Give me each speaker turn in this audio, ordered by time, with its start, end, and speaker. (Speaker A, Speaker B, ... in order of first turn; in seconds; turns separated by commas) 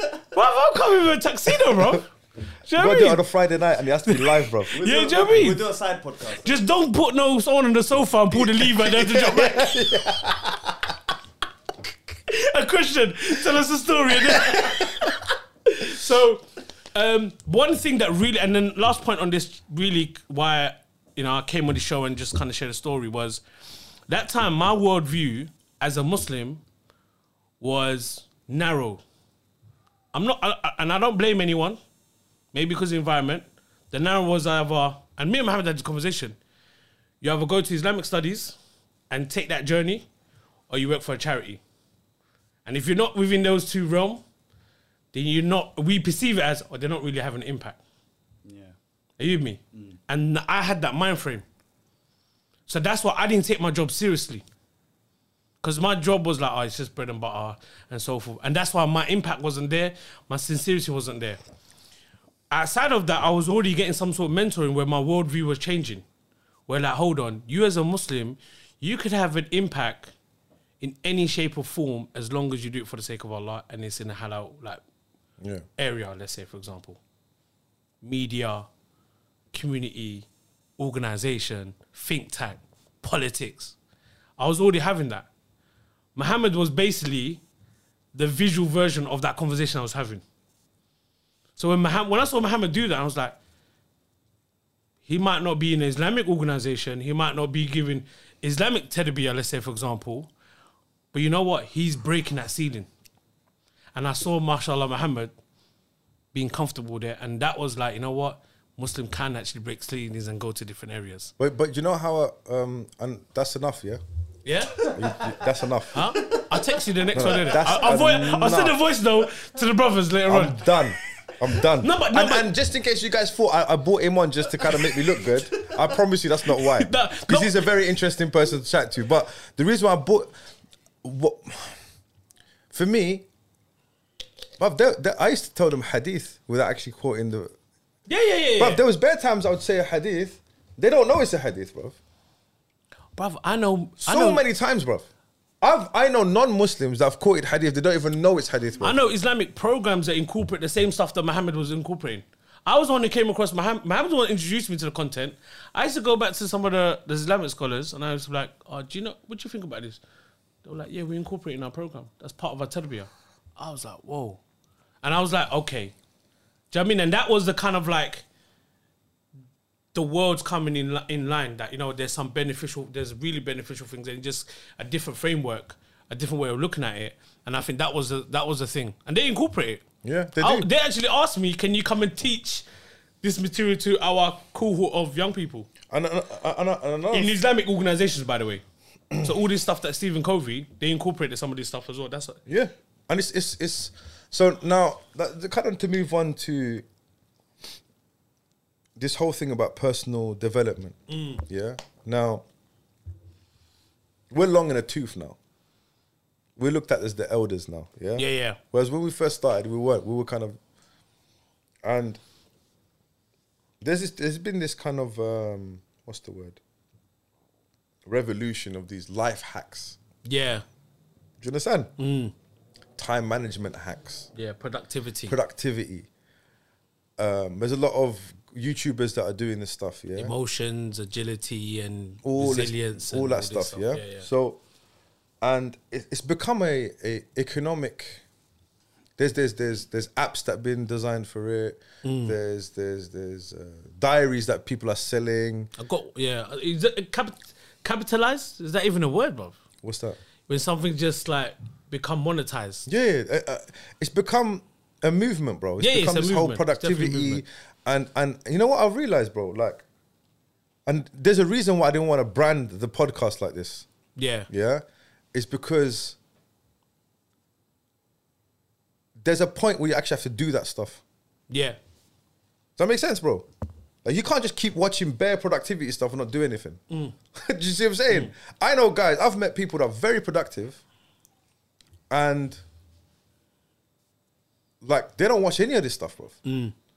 Speaker A: 0.3-2.1, Speaker A: 2.6-3.2, Speaker B: 2.8-4.7, Speaker A: 4.0-5.6, Speaker C: 4.7-6.5, Speaker A: 6.4-9.8, Speaker B: 8.5-10.7, Speaker A: 12.3-23.4, Speaker A: 24.1-26.6, Speaker A: 27.6-29.0, Speaker A: 30.1-31.8, Speaker A: 32.5-36.4, Speaker A: 37.2-38.6, Speaker A: 39.1-40.0, Speaker A: 40.7-41.6, Speaker A: 42.6-44.2, Speaker A: 45.1-47.8, Speaker C: 48.4-48.8, Speaker A: 49.2-51.4, Speaker C: 49.7-50.0, Speaker A: 52.7-54.4, Speaker A: 55.6-61.4, Speaker A: 62.5-66.0, Speaker A: 66.7-70.1, Speaker A: 70.8-74.8, Speaker A: 75.8-77.0, Speaker A: 78.0-78.7, Speaker A: 79.5-80.3, Speaker A: 80.8-83.8, Speaker A: 84.4-85.3, Speaker A: 86.1-87.4, Speaker A: 88.1-90.2, Speaker A: 91.6-93.3, Speaker A: 95.0-100.3, Speaker A: 101.1-102.9, Speaker A: 103.9-105.3, Speaker A: 106.3-111.3, Speaker B: 111.4-114.0, Speaker A: 114.4-114.9, Speaker B: 114.9-116.1, Speaker A: 115.9-120.7, Speaker B: 117.1-118.8, Speaker B: 120.3-130.3, Speaker A: 121.8-122.5, Speaker A: 126.6-127.6, Speaker B: 131.0-131.8, Speaker B: 132.7-133.3, Speaker B: 134.6-137.5, Speaker A: 138.1-138.8, Speaker B: 138.6-142.0, Speaker A: 143.2-144.4, Speaker B: 144.0-145.1, Speaker B: 145.6-149.0, Speaker A: 148.8-160.0, Speaker A: 160.6-164.4, Speaker A: 165.0-165.9, Speaker A: 166.7-168.2, Speaker A: 169.9-179.8, Speaker B: 180.0-180.7, Speaker A: 180.4-182.6, Speaker A: 183.2-185.7, Speaker B: 185.9-187.3, Speaker A: 187.1-188.6, Speaker A: 189.2-192.4, Speaker B: 192.5-196.8, Speaker B: 198.9-202.4, Speaker A: 201.1-201.4, Speaker B: 204.3-205.4, Speaker B: 206.6-210.6, Speaker A: 208.2-208.6, Speaker B: 211.8-212.2, Speaker B: 213.8-216.6, Speaker B: 218.1-220.0, Speaker A: 220.2-220.6, Speaker B: 221.4-221.9, Speaker A: 222.0-222.3, Speaker B: 223.0-224.3, Speaker A: 224.3-225.3, Speaker B: 225.3-226.1, Speaker B: 227.2-230.3, Speaker A: 230.2-234.3, Speaker B: 232.2-234.6, Speaker B: 235.4-238.2, Speaker B: 239.2-245.7, Speaker A: 242.0-242.3, Speaker A: 245.8-249.6, Speaker B: 249.8-250.2, Speaker A: 250.5-252.9, Speaker B: 252.8-259.8, Speaker A: 255.8-257.4, Speaker B: 260.9-263.9, Speaker A: 264.1-264.5, Speaker B: 264.5-266.2, Speaker B: 269.2-271.0, Speaker A: 271.5-271.8, Speaker B: 272.8-273.5, Speaker B: 274.0-276.8, Speaker B: 277.3-280.8, Speaker B: 282.1-282.6, Speaker B: 284.8-286.4, Speaker A: 286.4-286.7